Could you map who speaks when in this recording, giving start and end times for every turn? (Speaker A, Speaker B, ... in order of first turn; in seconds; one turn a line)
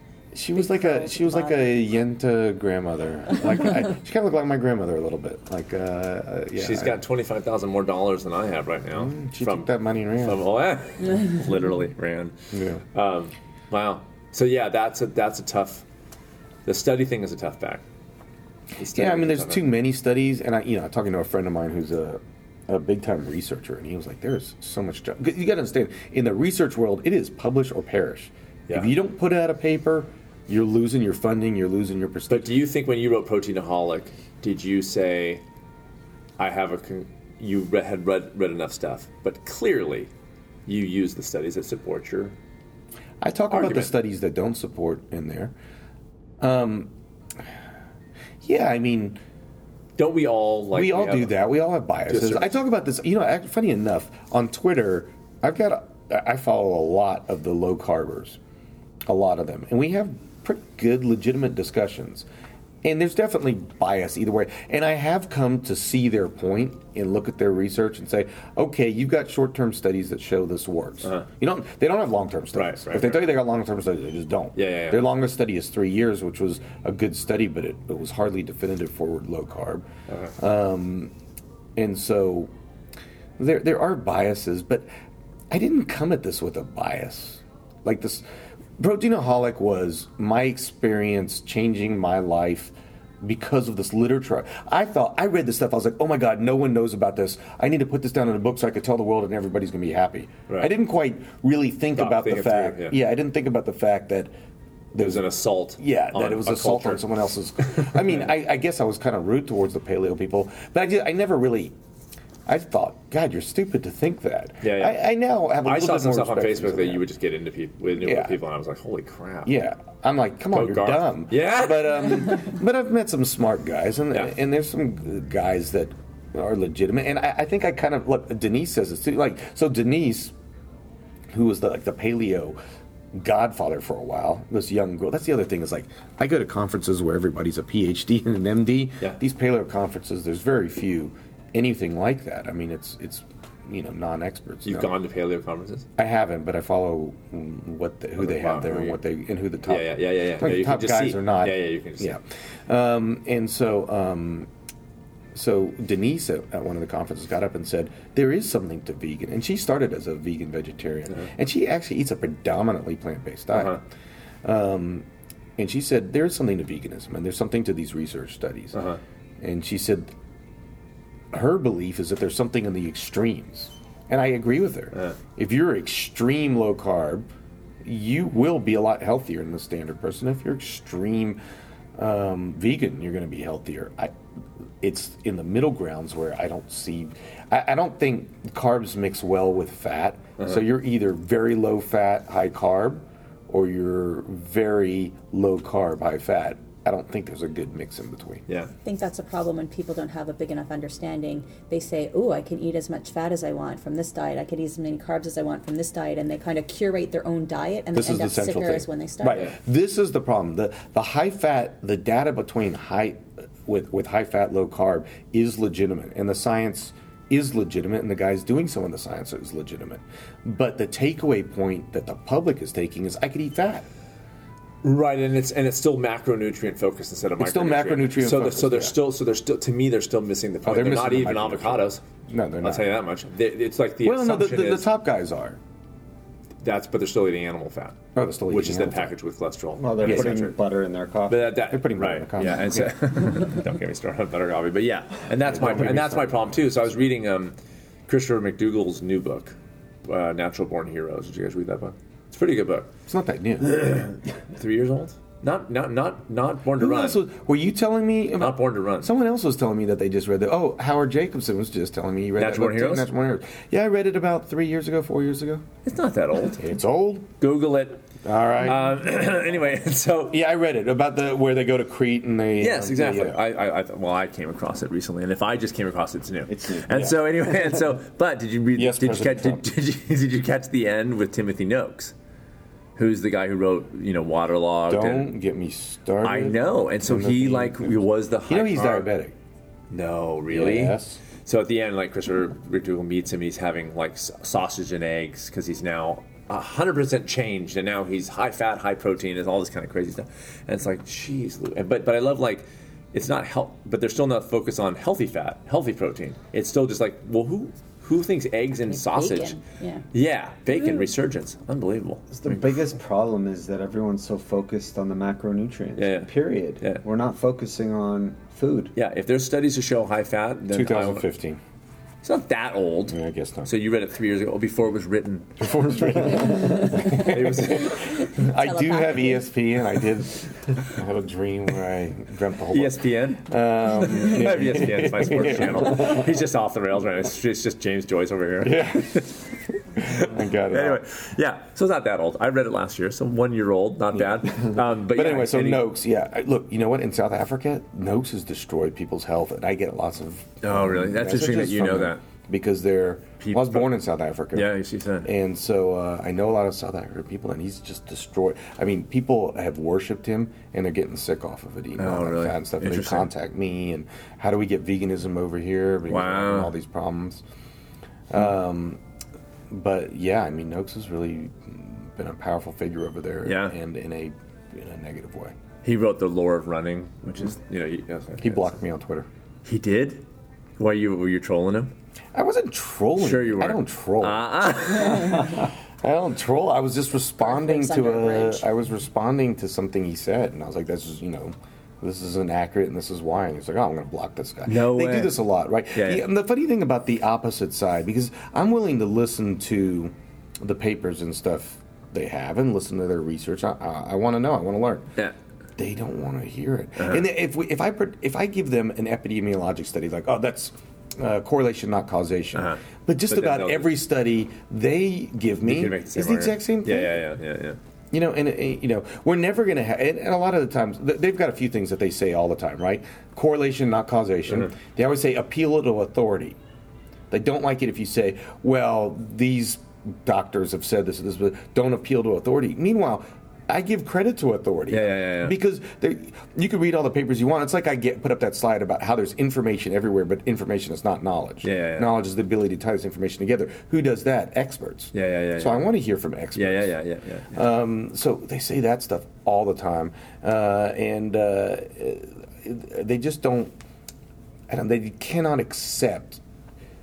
Speaker A: 0.3-7.0
Speaker B: 0.5-1.7
Speaker C: 6.5-12.3
Speaker A: 8.9-10.4
Speaker A: 12.5-12.8
Speaker C: 12.9-15.8
Speaker C: 16.6-17.8
Speaker C: 18.8-19.7
Speaker A: 18.9-32.5
Speaker C: 32.3-35.4
Speaker C: 36.4-40.1
Speaker C: 40.6-42.4
Speaker A: 43.2-45.5
Speaker C: 43.5-43.9
Speaker A: 46.4-46.9
Speaker A: 48.4-49.2
Speaker C: 50.0-51.4
Speaker A: 50.7-58.4
Speaker C: 52.1-52.5
Speaker A: 59.1-62.2
Speaker A: 62.8-79.8
Speaker C: 72.5-73.3
Speaker C: 74.5-75.0
Speaker C: 80.1-80.3
Speaker A: 80.4-81.1
Speaker A: 81.8-82.5
Speaker A: 83.4-84.9
Speaker A: 85.5-88.2
Speaker A: 88.8-104.3
Speaker C: 102.0-103.0
Speaker A: 104.9-111.7
Speaker C: 105.0-107.0
Speaker C: 107.6-108.2
Speaker A: 112.5-117.0
Speaker C: 114.6-115.0
Speaker C: 115.6-119.5
Speaker A: 118.0-118.4
Speaker A: 119.4-130.3
Speaker C: 120.5-122.5
Speaker A: 131.3-132.6
Speaker A: 133.1-144.9
Speaker C: 144.6-145.9
Speaker A: 146.0-154.5
Speaker C: 148.2-149.0
Speaker C: 149.7-152.2
Speaker A: 155.3-163.8
Speaker C: 163.5-163.8
Speaker A: 164.4-168.8
Speaker C: 168.7-169.0
Speaker A: 169.4-170.1
Speaker A: 171.3-177.3
Speaker A: 177.8-181.4
Speaker A: 182.0-184.1
Speaker A: 184.8-198.4
Speaker B: 198.8-209.5
Speaker A: 207.9-223.9
Speaker C: 224.8-232.0
Speaker A: 227.4-228.9
Speaker A: 230.6-232.9
Speaker C: 232.6-234.9
Speaker A: 234.0-235.6
Speaker C: 236.6-240.6
Speaker A: 238.2-239.1
Speaker D: 239.8-241.6
Speaker A: 240.0-240.4
Speaker C: 241.3-247.5
Speaker A: 241.7-242.9
Speaker A: 245.4-246.6
Speaker C: 248.1-252.9
Speaker A: 253.1-253.7
Speaker C: 253.6-257.2
Speaker A: 256.8-265.6
Speaker C: 258.4-259.1
Speaker C: 262.4-263.1
Speaker C: 265.8-266.6
Speaker A: 266.6-267.4
Speaker C: 267.4-268.0
Speaker A: 268.2-268.9
Speaker C: 268.6-270.4
Speaker A: 270.3-273.4
Speaker C: 272.6-282.1
Speaker D: 276.5-276.9
Speaker A: 278.7-279.6
Speaker C: 282.9-285.3
Speaker A: 284.9-289.3
Speaker C: 286.2-289.1
Speaker C: 289.9-309.6
Speaker A: 290.5-291.2
Speaker B: 308.9-310.0
Speaker C: 310.1-312.6
Speaker D: 312.3-318.9
Speaker C: 316.0-317.0
Speaker C: 318.9-321.2
Speaker A: 320.7-321.6
Speaker C: 322.2-326.3
Speaker A: 323.1-323.7
Speaker A: 325.6-336.3
Speaker B: 326.7-329.4
Speaker C: 327.1-328.0
Speaker C: 332.7-339.3
Speaker A: 338.6-339.3
Speaker A: 340.0-341.0
Speaker C: 340.0-345.9
Speaker A: 344.6-354.7
Speaker C: 350.6-352.2
Speaker C: 353.4-353.9
Speaker C: 354.5-355.3
Speaker A: 355.2-367.4
Speaker C: 362.0-363.3
Speaker C: 366.1-366.7
Speaker A: 368.3-369.0
Speaker A: 369.7-375.5
Speaker C: 373.4-373.7
Speaker C: 375.8-378.7
Speaker A: 378.4-379.3
Speaker C: 379.6-380.2
Speaker C: 380.8-381.9
Speaker A: 382.3-405.1
Speaker C: 383.2-385.7
Speaker B: 387.4-388.7
Speaker C: 394.6-396.2
Speaker A: 405.8-417.2
Speaker C: 407.0-407.2
Speaker C: 412.5-413.9
Speaker C: 415.6-417.8
Speaker A: 418.1-426.6
Speaker A: 427.3-446.9
Speaker C: 434.9-435.6
Speaker C: 441.6-442.1
Speaker C: 445.1-445.9
Speaker C: 446.6-447.6
Speaker A: 447.5-453.7
Speaker A: 454.7-456.4